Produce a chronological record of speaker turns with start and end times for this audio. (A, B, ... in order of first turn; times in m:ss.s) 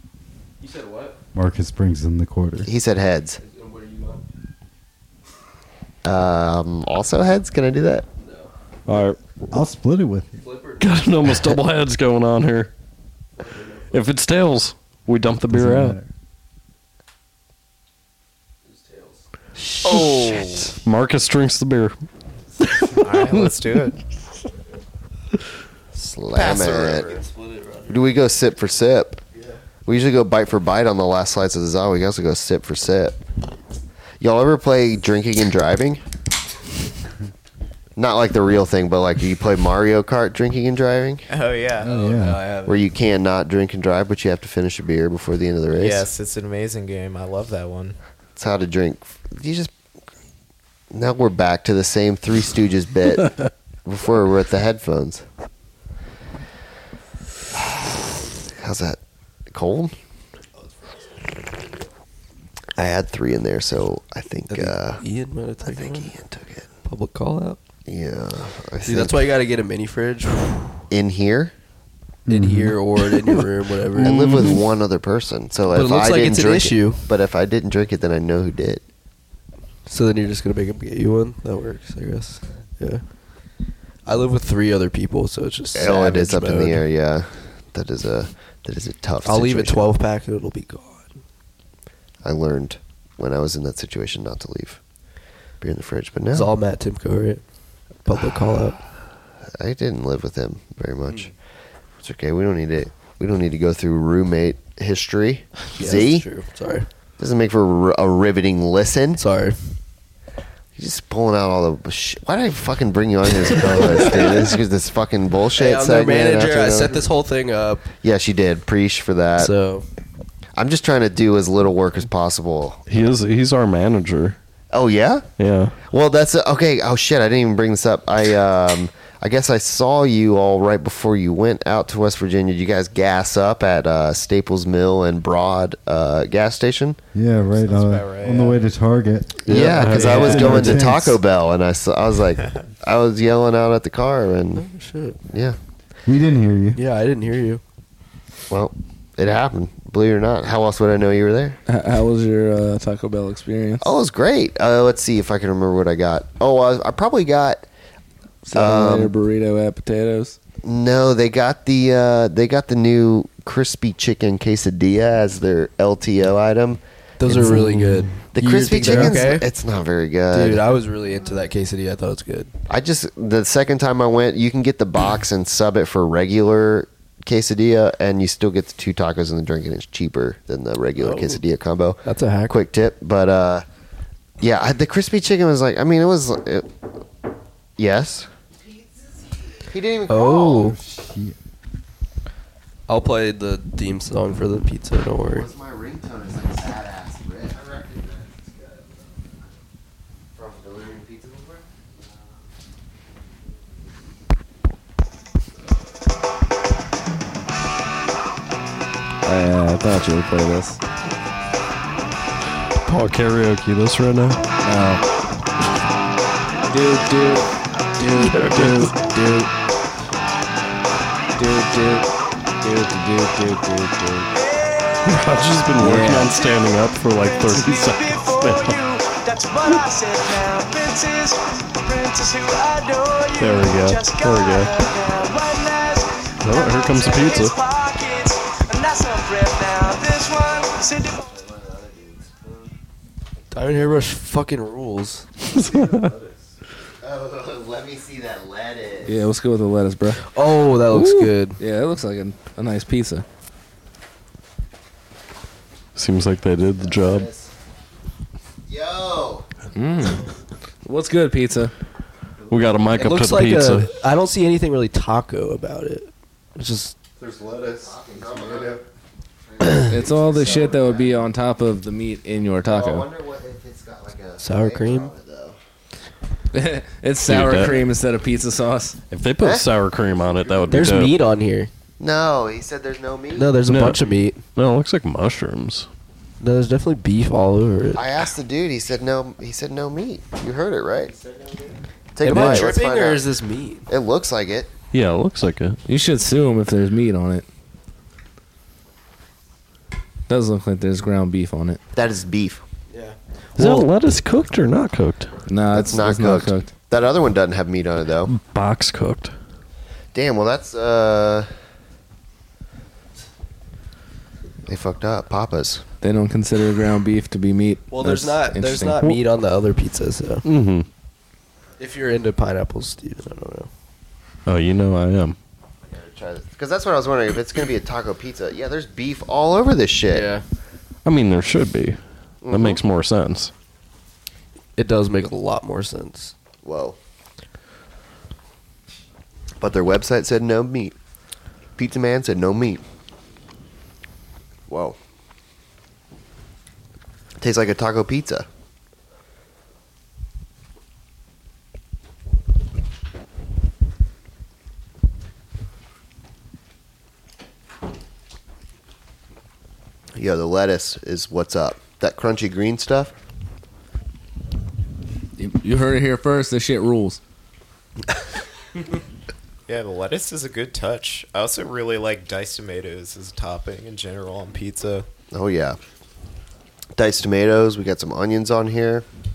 0:00.6-0:01.2 A
0:01.3-0:02.7 B
0:02.6-0:03.4 C
0:03.4-0:04.3 A
0:06.0-0:08.1 C
0:08.2-0:08.5 A
0:08.9-0:09.2 D
0:09.5-0:10.4 B
0:10.4-0:11.1 A
0:10.8-0:12.7 D
0:13.4-0:14.1 A
0:13.9-0:16.0 D
0:15.5-0:16.1 B
0:18.6-0:19.2 A
0:19.6-0:20.7 C
0:20.7-0:22.0 D
0:23.0-0:24.0 E
0:25.9-0:27.1 C
0:26.4-0:27.2 E
0:27.0-0:28.1 A
0:27.9-0:29.2 C
0:29.3-0:29.6 A
0:29.8-0:33.2 C
0:34.2-0:36.0 C
0:38.0-0:41.3 C
0:41.3-0:42.2 E
0:41.8-0:42.4 B
0:41.8-0:42.8 A
0:42.6-0:46.1 C
0:45.8-0:48.0 E
0:48.4-0:49.7 C
0:50.9-0:55.2 C
0:57.5-0:59.0 C
0:59.5-0:59.9 C
1:00.6-1:01.0 A
1:02.8-1:05.0 C
1:04.5-1:06.1 A
1:05.6-1:06.7 C
1:06.8-1:07.6 A
1:07.9-1:09.3 C
1:08.9-1:10.8 A
1:10.9-1:11.5 C
1:12.3-1:12.8 B
1:12.3-1:14.2 A
1:14.0-1:18.8 C
1:14.0-1:14.6 D
1:15.7-1:17.0 A
1:19.9-1:23.0 A
1:24.1-1:26.8 A
1:25.7-1:29.9 C
1:29.2-1:31.2 A
1:32.2-1:34.8 C
1:35.6-1:36.5 C
1:36.3-1:37.4 A
1:38.1-1:38.8 A
1:39.6-1:41.3 C
1:42.0-1:46.3 C
1:45.8-1:46.9 A
1:47.2-1:49.2 C
1:49.2-1:49.8 A
1:50.8-1:57.1 C
1:55.6-1:57.9 A
1:58.0-1:59.5 C
1:59.4-1:59.9 A
2:00.6-2:02.8 C
2:02.9-2:04.4 D
2:04.7-2:05.2 C
2:05.4-2:05.8 D
2:05.8-2:17.0 C
2:17.1-2:21.2 B
2:17.5-2:18.6 E
2:19.4-2:24.7 C
2:19.6-2:20.6 D
2:19.9-2:20.8 A
2:24.6-2:25.2 A
2:25.3-2:25.6 C
2:26.1-2:26.8 B
2:26.8-2:27.6 A
2:28.5-2:31.6 C
2:31.7-2:33.9 F
2:33.8-2:37.7 C
2:38.5-2:40.4 F
2:38.5-2:39.1 C
2:40.6-2:46.8 C
2:47.2-2:49.5 A
2:48.3-2:50.7 C
2:50.3-2:52.5 A
2:52.7-3:03.6 C
3:01.0-3:01.4 A
3:02.0-3:02.6 A
3:04.4-3:06.7 C
3:07.8-3:08.3 C
3:09.0-3:10.7 C
3:10.1-3:10.8 A
3:10.6-3:11.4 B
3:12.9-3:15.5 A
3:15.2-3:19.3 C
3:20.3-3:21.7 C
3:29.2-3:30.8 F
3:32.8-3:34.4 D
3:34.6-3:35.0 F
3:36.7-3:39.5 F
3:38.2-3:39.0 D
3:41.4-3:42.1 F
3:42.6-3:44.3 F
3:44.3-3:45.6 G
3:45.0-3:48.8 D
3:45.8-3:46.3 F
3:46.3-4:01.3 G
3:53.4-3:54.8 D
3:56.4-3:57.6 D
4:01.2-4:02.7 C
4:03.5-4:05.3 A
4:05.5-4:06.1 D
4:05.7-4:06.3 B
4:07.0-4:09.2 C
4:09.0-4:10.2 F
4:10.3-4:11.6 A
4:11.6-4:13.2 F
4:16.0-4:17.3 D
4:16.8-4:17.5 C
4:18.7-4:19.5 C
4:19.8-4:20.3 F
4:20.8-4:21.7 F
4:22.5-4:23.9 D
4:23.0-4:27.0 A
4:27.2-4:28.8 B
4:27.7-4:28.8 C
4:29.5-4:31.2 C
4:29.6-4:33.1 F
4:32.6-4:35.6 C
4:34.4-4:35.1 A
4:36.5-4:39.0 F
4:37.2-4:37.8 D
4:39.1-4:41.2 D
4:39.4-4:39.7 C
4:40.7-4:41.7 A
4:42.0-4:43.6 C
4:43.4-4:44.4 A
4:43.7-4:44.0 D
4:44.6-4:45.9 D
4:46.4-4:48.1 A
4:48.0-4:51.2 C
4:52.1-4:53.3 C
4:52.2-4:53.9 A
4:53.9-4:54.7 C
4:54.9-4:55.8 D
4:55.9-4:57.4 F
5:00.3-5:01.8 F
5:01.9-5:02.6 C
5:02.9-5:03.2 A
5:03.6-5:05.4 D
5:05.5-5:06.7 F
5:05.7-5:08.3 C
5:08.3-5:09.3 D
5:10.1-5:11.5 C
5:14.7-5:15.8 C
5:16.0-5:19.0 F
5:17.9-5:20.4 A
5:20.4-5:20.9 D
5:21.8-5:23.7 A
5:24.5-5:25.4 D
5:25.9-5:30.4 C
5:30.1-5:30.4 A
5:31.0-5:33.5 D
5:32.4-5:32.8 C
5:34.8-5:36.3 A
5:36.6-5:37.0 C
5:39.6-5:41.0 C
5:41.8-5:42.8 C
5:44.7-5:45.0 C
5:47.4-5:48.5 C
6:00.2-6:03.1 C
6:05.4-6:07.2 F
6:09.7-6:15.1 E
6:15.3-6:15.8 C
6:17.0-6:19.0 C